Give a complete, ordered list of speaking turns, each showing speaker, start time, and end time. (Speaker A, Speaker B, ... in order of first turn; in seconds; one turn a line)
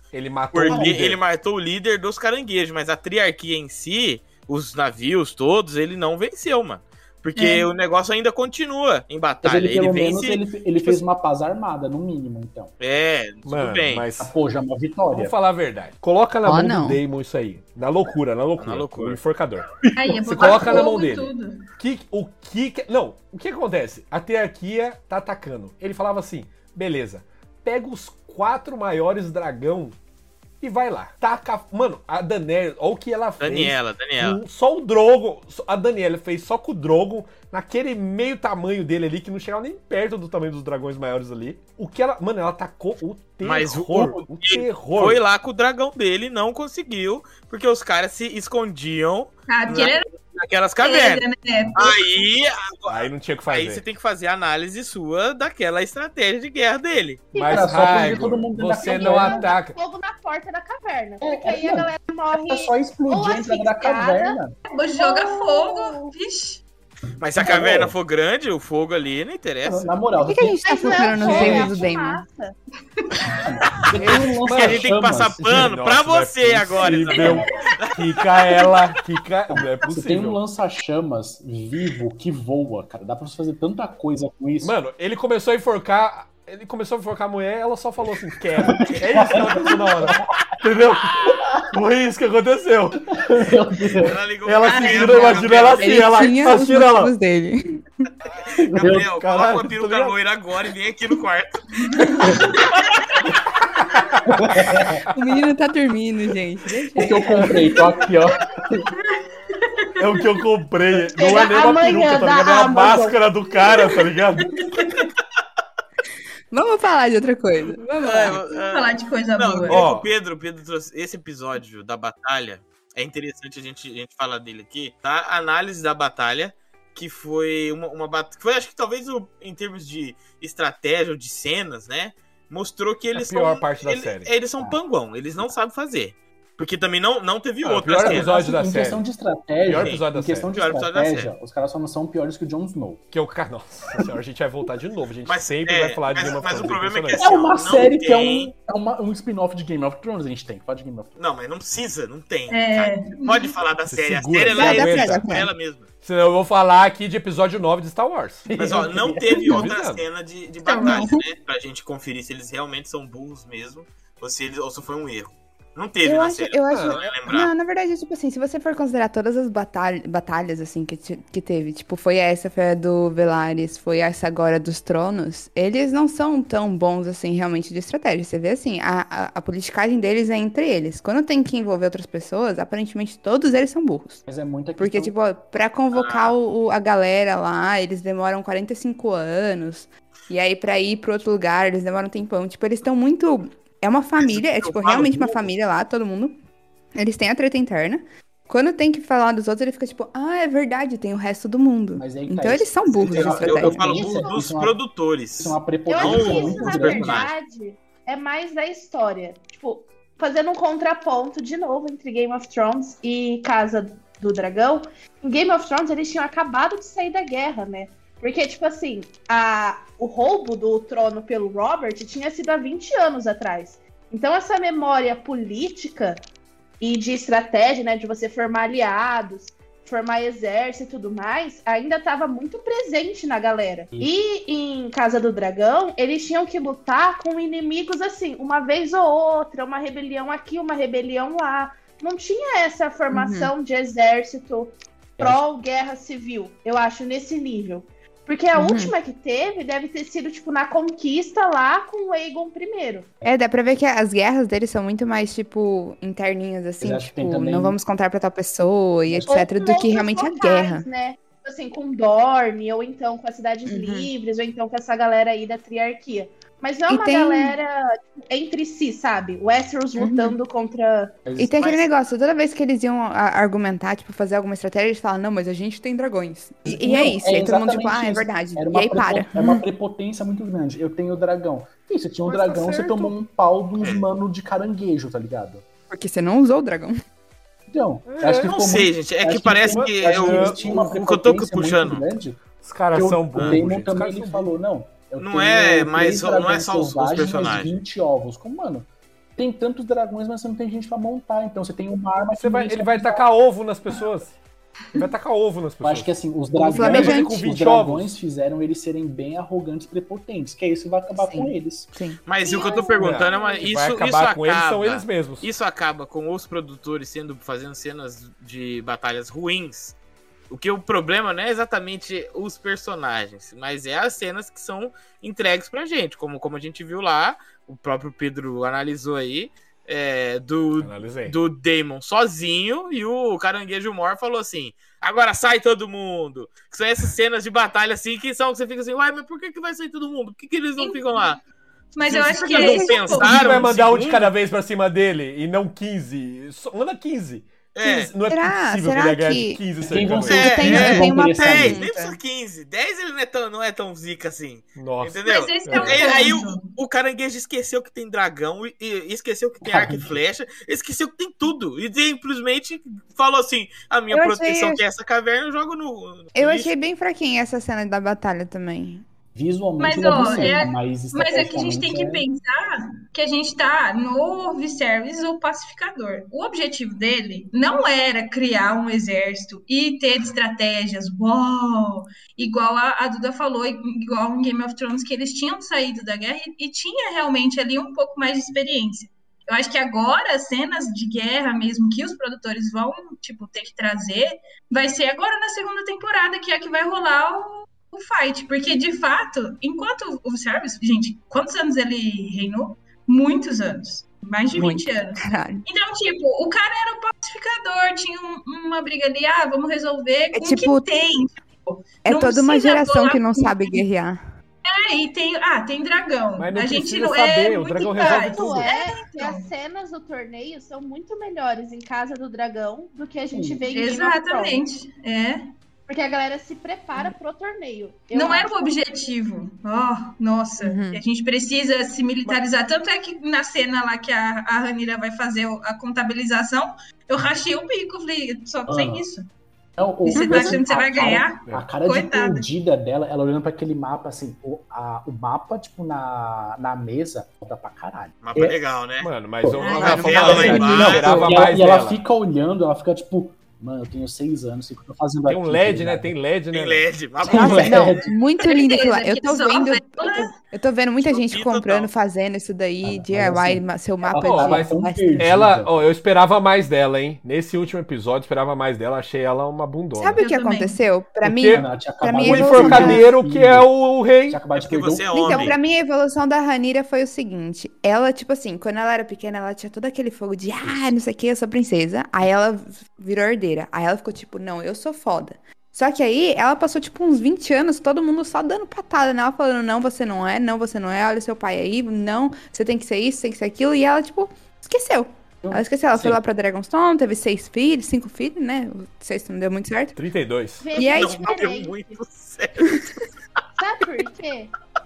Speaker A: 0.1-1.2
Speaker B: 0.5-11.0
Speaker C: 0.7-0.9
Speaker D: 7.3-7.7
Speaker C: 9.4-12.7
Speaker B: 12.8-14.1
Speaker A: 13.4-14.3
Speaker C: 14.2-15.3
Speaker A: 15.1-29.9
Speaker E: 16.4-17.0
Speaker B: 18.6-19.2
Speaker D: 19.9-21.6
Speaker A: 30.6-45.2
Speaker B: 33.4-34.4
Speaker B: 43.4-51.2
Speaker D: 49.5-50.1
Speaker D: 50.8-52.0
Speaker B: 51.8-57.3
Speaker A: 52.9-53.8
Speaker F: 57.3-58.2
Speaker A: 57.4-59.8
Speaker C: 57.4-59.5
Speaker F: 58.8-64.4
Speaker C: 61.2-64.5
Speaker D: 64.7-66.6
Speaker F: 65.0-66.1
Speaker B: 67.2-69.9
Speaker C: 67.3-67.9
Speaker C: 69.6-71.7
Speaker E: 70.2-72.2
Speaker F: 70.6-72.5
Speaker A: 71.2-71.8
Speaker C: 73.3-75.7
Speaker A: 74.2-80.4
Speaker B: 74.4-78.6
Speaker C: 79.5-84.7
Speaker A: 84.6-93.1
Speaker C: 88.6-90.2
Speaker B: 88.8-89.7
Speaker C: 93.1-94.1
Speaker B: 94.0-96.2
Speaker A: 94.4-97.1
Speaker D: 94.6-95.5
Speaker E: 95.8-98.1
Speaker B: 98.4-103.0
Speaker C: 98.6-99.1
Speaker A: 99.2-100.2
Speaker D: 101.8-102.6
Speaker A: 103.9-104.9
Speaker C: 104.3-105.0
Speaker E: 105.1-107.8
Speaker C: 107.0-108.9
Speaker D: 109.0-110.3
Speaker A: 110.0-114.6
Speaker F: 111.1-113.8
Speaker D: 114.5-115.1
Speaker E: 116.5-118.4
Speaker B: 118.0-138.3
Speaker D: 118.7-119.8
Speaker A: 119.7-120.1
Speaker A: 133.1-134.3
Speaker A: 137.6-139.0
Speaker C: 138.0-143.0
Speaker A: 139.6-140.5
Speaker B: 139.7-141.3
Speaker A: 143.1-147.5
Speaker B: 145.2-148.5
Speaker C: 147.2-151.2
Speaker B: 151.2-155.9
Speaker D: 152.5-153.5
Speaker A: 153.9-155.2
Speaker E: 154.5-155.5
Speaker A: 156.0-158.5
Speaker C: 158.4-159.7
Speaker B: 158.6-167.5
Speaker A: 159.4-160.0
Speaker D: 160.6-161.1
Speaker E: 160.8-161.2
Speaker E: 166.0-184.2
Speaker A: 166.7-167.0
Speaker C: 184.2-185.1
Speaker E: 184.8-196.4
Speaker B: 185.9-186.3
Speaker B: 194.2-195.4
Speaker E: 196.9-204.0
Speaker C: 201.9-204.8
Speaker B: 203.1-207.3
Speaker F: 204.0-204.4
Speaker C: 205.4-207.2
Speaker F: 205.9-226.2
Speaker F: 226.8-253.1
Speaker E: 243.1-243.5
Speaker E: 248.5-248.9
Speaker E: 253.2-260.9
Speaker C: 256.8-257.8
Speaker C: 259.1-259.4
Speaker F: 259.3-271.2
Speaker E: 263.6-264.1
Speaker E: 266.9-267.6
Speaker E: 270.0-270.4
Speaker C: 271.2-271.6
Speaker E: 271.4-279.6
Speaker B: 271.5-271.9
Speaker C: 276.6-285.6
Speaker A: 282.2-283.1
Speaker B: 283.8-284.0
Speaker E: 285.9-287.0
Speaker C: 287.7-303.2
Speaker A: 288.1-288.5
Speaker B: 288.4-292.0
Speaker A: 289.7-290.6
Speaker A: 292.6-294.5
Speaker B: 293.3-293.6
Speaker B: 295.2-297.7
Speaker A: 302.4-304.4
Speaker A: 304.9-306.1
Speaker C: 305.8-311.9
Speaker E: 306.6-307.4
Speaker A: 306.7-308.2
Speaker E: 311.1-312.2
Speaker B: 312.2-319.9
Speaker F: 312.4-313.7
Speaker A: 313.0-315.5
Speaker B: 320.5-341.4
Speaker A: 330.8-331.4
Speaker D: 341.9-343.7
Speaker B: 342.0-344.3
Speaker E: 342.4-343.1
Speaker A: 343.1-350.9
Speaker B: 347.7-348.1
Speaker E: 348.3-349.7
Speaker C: 349.8-351.8
Speaker E: 350.2-352.2
Speaker B: 350.2-366.7
Speaker A: 354.8-356.2
Speaker D: 355.2-356.7
Speaker C: 359.6-360.2
Speaker E: 364.1-364.8
Speaker E: 366.3-369.0
Speaker C: 369.3-372.2
Speaker D: 369.8-413.8
Speaker E: 404.5-405.6
Speaker E: 410.3-410.9
Speaker E: 412.0-414.2
Speaker D: 414.6-419.5
Speaker A: 416.4-418.7
Speaker F: 417.8-424.6
Speaker C: 423.3-423.6
Speaker D: 423.7-425.4
Speaker F: 425.9-428.5
Speaker D: 428.1-439.3
Speaker E: 430.6-431.0
Speaker C: 438.7-439.1
Speaker C: 439.8-448.6
Speaker D: 440.1-442.5
Speaker E: 440.1-440.6
Speaker B: 448.2-449.1
Speaker A: 449.0-452.0
Speaker C: 449.4-449.7
Speaker D: 449.6-450.5
Speaker E: 449.6-451.3
Speaker B: 449.8-451.4
Speaker C: 450.2-456.1
Speaker A: 455.3-456.9
Speaker B: 456.5-457.9
Speaker C: 457.2-458.1
Speaker E: 457.2-465.3
Speaker D: 458.4-460.3
Speaker B: 461.0-461.9
Speaker C: 462.8-465.9
Speaker A: 464.2-470.2
Speaker E: 470.0-473.1
Speaker D: 470.2-470.8
Speaker A: 471.2-471.6
Speaker C: 471.5-473.7
Speaker A: 472.2-474.4
Speaker C: 474.2-475.6
Speaker B: 474.5-475.6
Speaker E: 475.1-500.0
Speaker C: 480.6-480.9
Speaker C: 495.4-496.2
Speaker A: 499.9-500.7
Speaker F: 500.6-502.0
Speaker E: 500.7-501.4
Speaker B: 500.8-502.8
Speaker F: 503.6-504.5